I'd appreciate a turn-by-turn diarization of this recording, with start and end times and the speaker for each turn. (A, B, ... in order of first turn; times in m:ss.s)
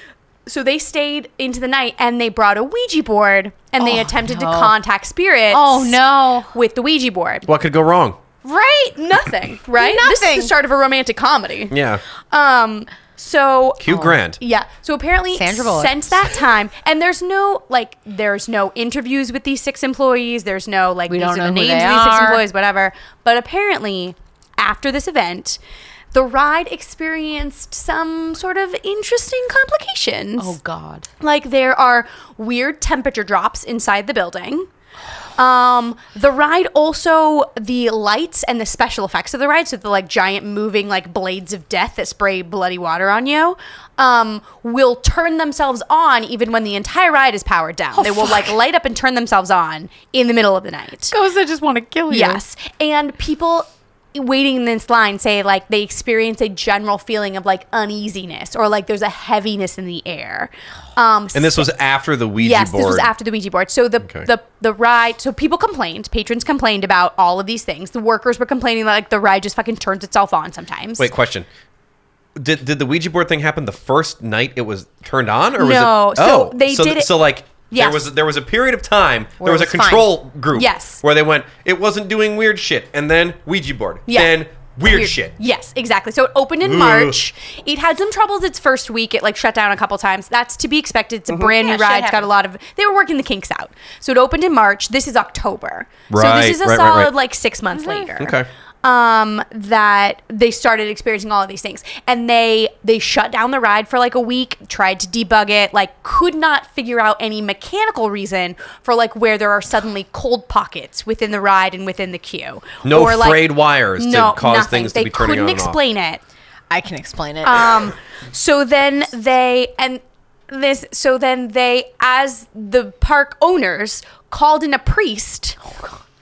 0:00.4-0:06.0 A
0:03.8-0:04.7 B
0:05.5-0:06.5 B
0:06.5-0:07.5 A
0:07.5-0:08.2 C
0:08.4-0:09.0 B
0:09.0-0:11.7 A
0:09.8-0:10.5 B
0:11.7-0:12.0 C
0:12.3-0:25.6 A
0:13.8-0:14.4 C
0:13.9-0:14.2 B
0:15.3-0:16.1 B
0:21.1-0:22.4 B
0:26.1-0:30.5 A
0:30.4-0:31.1 B
0:31.2-0:34.7 A
0:35.4-0:51.1 A
0:47.9-0:48.5 B
0:51.1-0:52.4 B
0:52.1-1:01.7 A
1:01.3-1:03.1 C
1:02.4-1:11.1 A
1:11.0-1:11.5 C
1:12.4-1:25.3 C
1:15.6-1:18.0 A
1:19.4-1:20.1 B
1:20.5-1:21.0 A
1:24.1-1:56.2 A
1:26.6-1:27.2 C
1:31.4-1:32.3 B
1:36.1-1:37.1 C
1:37.7-1:38.1 B
1:38.2-1:38.5 C
1:52.8-1:55.8 C
1:56.7-1:57.7 B
1:57.4-2:05.6 A